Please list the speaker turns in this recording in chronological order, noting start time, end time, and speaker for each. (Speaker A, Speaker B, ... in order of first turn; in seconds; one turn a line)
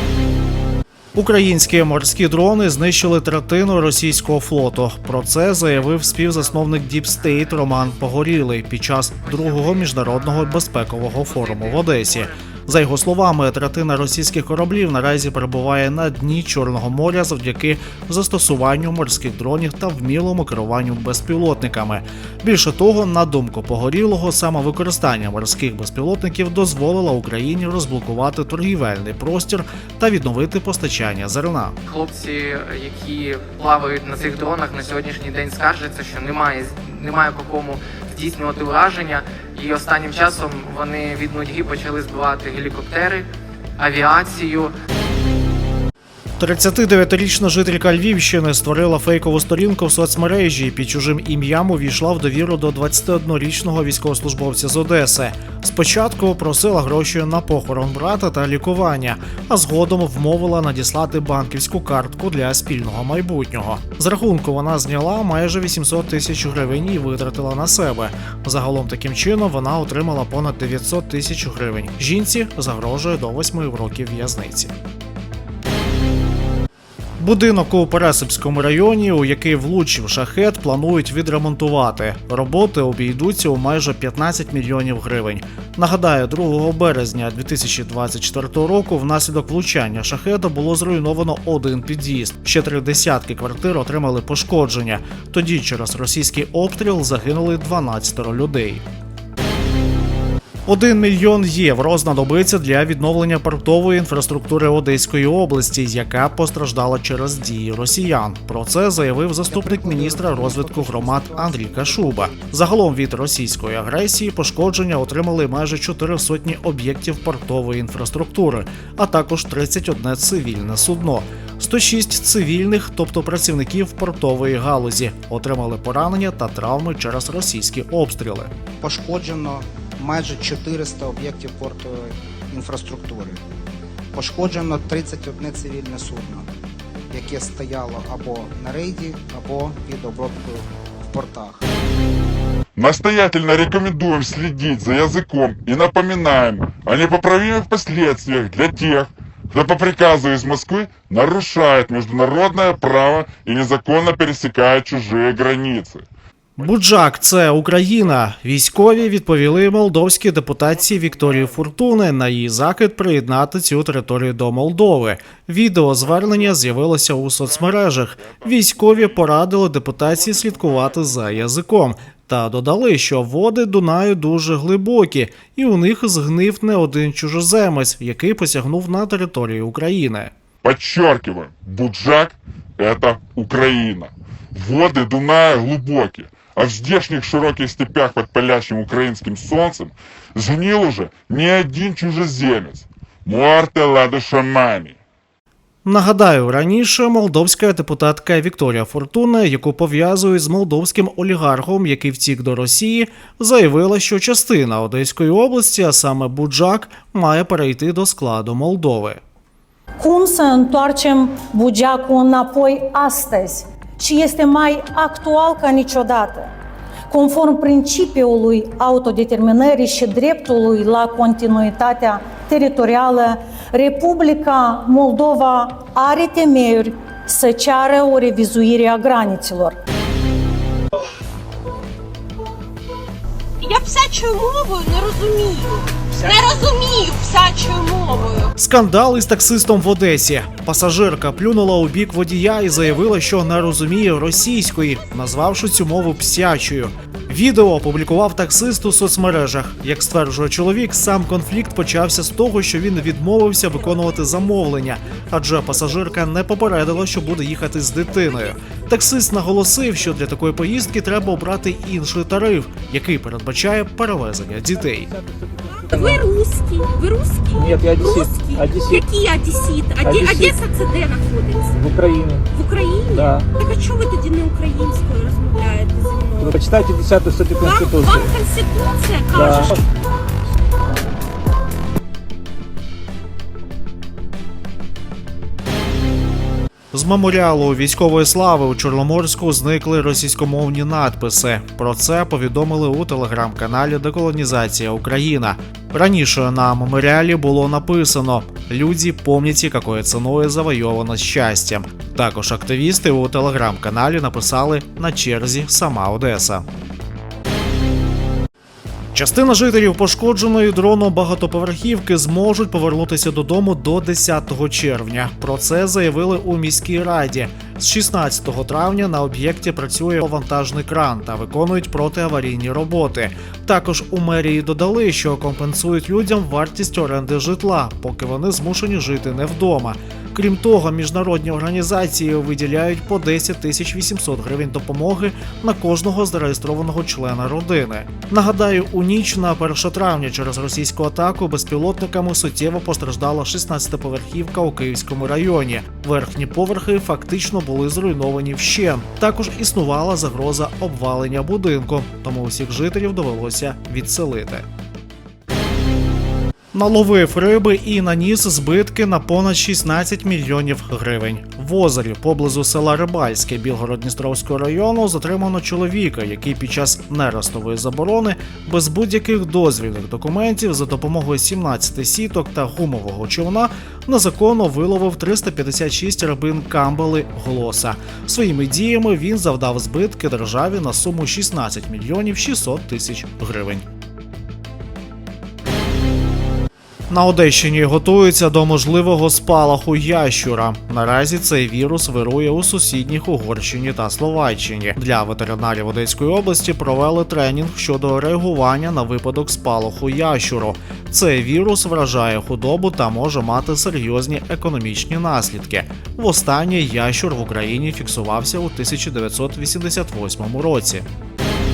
Speaker A: 1.1-31.8
Speaker B: 11.3-11.8
Speaker B: 31.8-44.7
Speaker A: 46.4-74.7
Speaker A: 77.2-98.8
Speaker A: 100.7-128.5
Speaker C: 109.5-112.5
Speaker C: 128.8-133.4
Speaker C: 134.1-136.5
Speaker C: 137.1-141.6
Speaker D: 142.8-156.1
Speaker D: 156.6-157.1
Speaker A: 156.6-180.3
Speaker D: 161.3-161.6
Speaker D: 166.0-166.7
Speaker D: 167.3-169.2
Speaker D: 170.1-171.3
Speaker D: 180.6-195.0
Speaker A: 195.8-209.2
Speaker E: 210.0-216.5
Speaker E: 217.1-229.8
Speaker F: 233.6-238.5
Speaker A: 238.6-265.1
Speaker F: 265.8-271.9
Speaker G: 267.5-269.0
Speaker G: 270.0-270.5
Speaker G: 271.8-272.4
Speaker F: 272.5-276.6
Speaker G: 273.1-273.4
Speaker G: 276.4-278.3
Speaker F: 277.6-279.8
Speaker G: 279.3-279.7
Speaker A: 286.9-306.6
Speaker A: 309.1-354.6
Speaker A: 356.7-383.8
Speaker A: 387.1-411.1